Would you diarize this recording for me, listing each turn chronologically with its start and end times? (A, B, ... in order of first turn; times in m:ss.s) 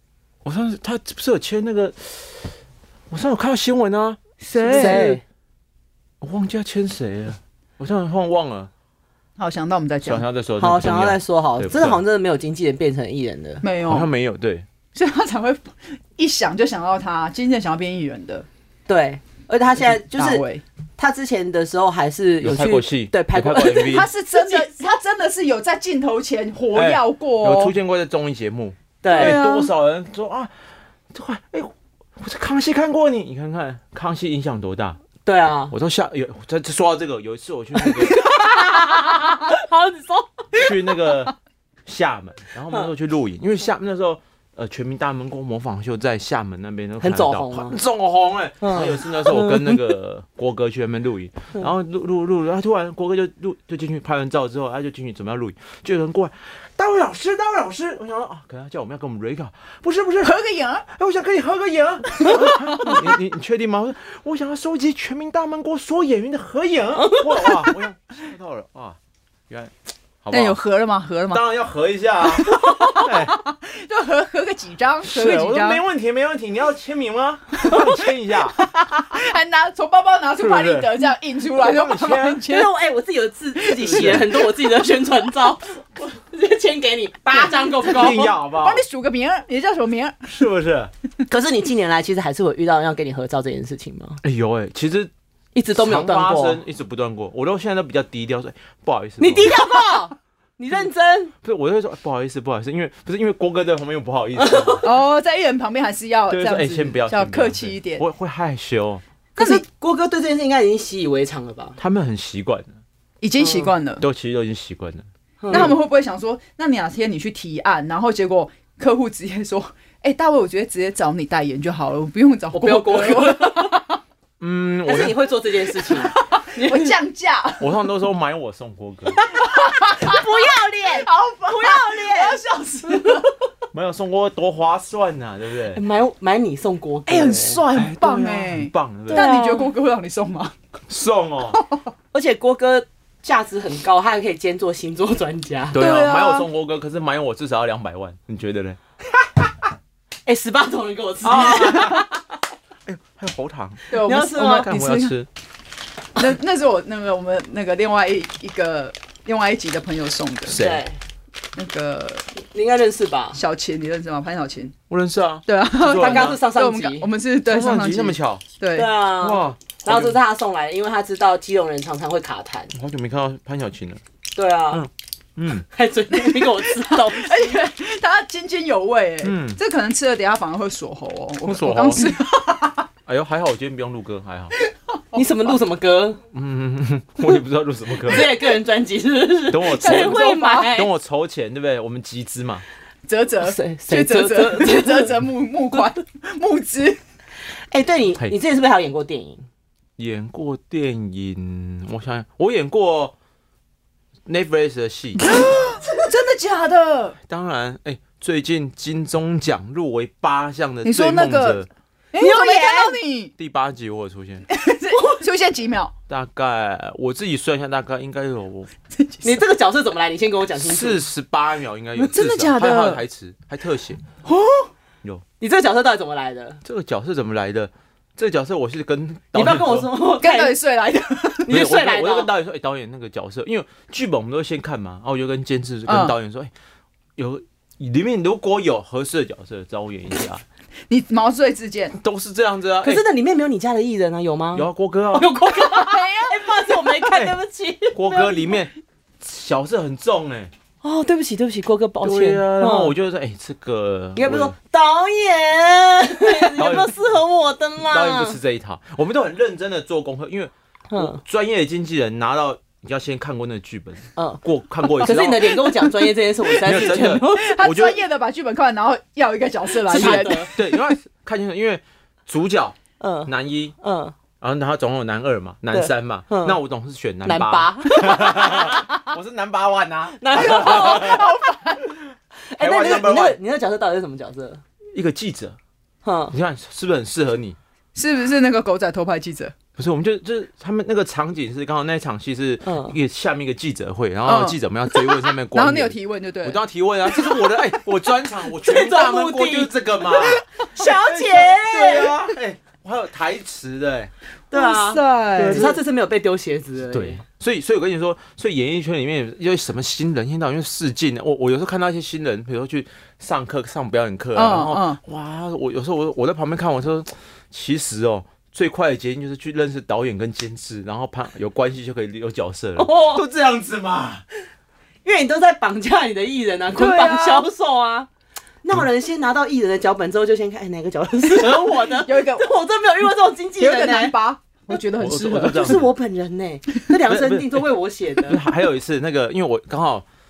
0:00.4-0:02.6 A
0:03.1-0:05.1 A
0:04.4-0:05.2 B
0:04.6-0:05.2 C
0:06.2-0:08.7 A
0:09.4-0:10.2 B
0:10.0-0:12.0 A
0:10.6-0:13.6 C
0:13.6-0:14.1 B
0:13.8-0:14.6 A
0:14.9-0:18.5 B
0:18.9-0:20.4 C
0:19.9-0:20.6 B
0:21.0-0:24.7 C
0:22.4-0:24.1 A
0:23.9-0:27.8 B
0:26.7-0:30.5 A
0:29.0-0:29.4 C
0:29.1-0:29.7 B
0:31.1-0:35.0 A
0:35.2-0:35.7 C
0:35.7-0:38.3 A
0:37.7-0:40.7 C
0:40.5-1:09.0 A
0:47.0-0:47.8 C
0:48.6-0:50.0 C
1:00.2-1:00.8 B
1:02.1-1:03.1 B
1:07.0-1:07.7 C
1:09.5-1:10.6 A
1:10.3-1:11.4 B
1:11.3-1:13.4 A
1:12.2-1:15.8 B
1:15.0-1:18.6 A
1:17.5-1:22.7 B
1:20.4-1:20.9 A
1:21.5-1:22.4 A
1:22.4-1:28.4 C
1:23.6-1:24.5 B
1:23.8-1:24.2 A
1:27.3-1:30.3 B
1:27.8-1:28.8 A
1:30.3-1:30.9 A
1:31.3-1:34.2 C
1:34.2-1:35.1 A
1:35.5-1:36.6 C
1:35.7-1:39.6 A
1:39.2-1:41.3 C
1:41.4-1:44.8 A
1:44.4-1:44.8 C
1:44.8-1:48.0 B
1:46.3-1:49.0 A
1:49.4-1:49.6 B
1:49.4-1:51.8 C
1:51.8-1:52.8 A
1:53.2-1:54.0 B
1:53.4-1:53.7 C
1:54.0-1:55.7 A
1:55.4-1:55.8 C
1:55.5-2:04.0 B
2:02.5-2:03.8 C
2:04.4-2:05.2 A
2:04.8-2:06.9 C
2:05.7-2:07.7 B
2:07.6-2:09.2 A
2:09.1-2:13.2 C
2:09.5-2:10.2 B
2:10.9-2:13.3 B
2:13.7-2:15.8 A
2:15.7-2:17.6 C
2:17.0-2:20.5 B
2:17.7-2:19.3 A
2:19.1-2:19.7 C
2:20.9-2:21.6 A
2:21.5-2:21.9 B
2:22.1-2:25.8 C
2:25.7-2:28.8 A
2:25.7-2:26.5 B
2:30.2-2:32.1 C
2:31.2-2:32.1 A
2:31.5-2:32.0 B
2:32.8-2:35.3 A
2:33.9-2:35.2 B
2:33.9-2:34.7 C
2:36.2-2:40.6 B
2:40.5-2:40.8 A
2:40.5-2:41.0 C
2:41.6-2:42.3 B
2:42.4-2:43.4 C
2:43.3-2:44.7 B
2:44.9-2:46.4 A
2:45.5-2:48.9 B
2:45.9-2:47.1 C
2:47.4-2:48.4 A
2:48.7-2:52.7 C
2:49.2-2:50.2 A
2:52.7-2:54.0 A
2:54.3-2:54.9 C
2:54.7-2:55.7 A
2:55.7-2:57.6 C
2:56.1-3:02.9 B
2:59.2-2:59.6 A
3:01.4-3:02.2 A
3:03.1-3:04.5 A
3:04.6-3:05.5 B
3:05.1-3:06.2 C
3:06.3-3:08.4 A
3:08.0-3:10.9 C
3:09.5-3:12.6 A
3:09.6-3:10.8 B
3:13.1-3:17.0 B
3:13.4-3:15.2 C
3:17.7-3:19.4 C
3:20.0-3:23.1 A
3:24.3-3:25.3 A
3:25.2-3:27.2 B
3:27.3-3:31.7 A
3:30.8-3:33.3 B
3:32.2-3:33.0 C
3:33.4-3:34.5 A
3:34.5-3:35.9 B
3:36.1-3:38.7 A
3:38.9-3:39.4 B
3:39.2-3:41.0 C
3:40.6-3:44.0 A
3:42.0-3:43.0 B
3:44.2-3:44.7 B
3:45.4-3:46.6 C
3:46.6-3:49.9 A
3:49.3-3:50.6 C
3:50.2-3:51.6 B
3:51.4-3:52.3 C
3:51.5-3:56.5 A
3:55.8-3:56.2 B
3:57.2-4:00.4 A
4:00.9-4:02.0 B
4:01.9-4:03.0 A
4:02.8-4:08.5 C
4:04.5-4:05.3 A
4:05.5-4:06.5 B
4:07.1-4:07.4 A
4:07.9-4:10.5 A
4:10.8-4:12.9 C
4:12.0-4:14.5 A
4:14.1-4:18.4 C
4:16.5-4:17.0 A
4:17.9-4:25.8 A
4:20.9-4:21.2 C
4:24.2-4:27.6 C
4:26.5-4:28.0 A
4:27.3-4:30.6 B
4:29.8-4:30.5 C
4:29.9-4:32.8 A
4:33.0-4:34.2 C
4:33.3-4:33.7 A
4:34.4-4:41.2 A
4:35.7-4:36.6 C
4:37.2-4:38.8 C
4:40.2-4:41.3 C
4:40.3-4:42.0 B
4:42.5-4:44.6 C
4:42.6-4:43.4 A
4:44.9-4:45.6 A
4:46.0-4:46.3 C
4:46.3-4:47.6 A
4:48.0-4:49.5 B
4:49.8-5:04.1 A
4:52.6-4:53.0 C
4:54.2-4:54.6 B
4:55.5-4:56.6 B
4:58.6-5:02.1 C
5:04.5-5:07.2 C
5:04.5-5:05.8 B
5:05.5-5:05.8 A
5:06.9-5:24.2 A
5:14.3-5:15.0 B
5:22.8-5:23.2 C
5:25.0-5:28.1 C
5:26.7-5:27.5 B
5:28.6-5:34.1 C
5:31.5-5:32.5 B
5:33.6-5:35.8 B
5:35.0-5:35.9 A
5:35.5-5:38.4 C
5:37.1-5:37.7 A
5:38.2-5:40.0 A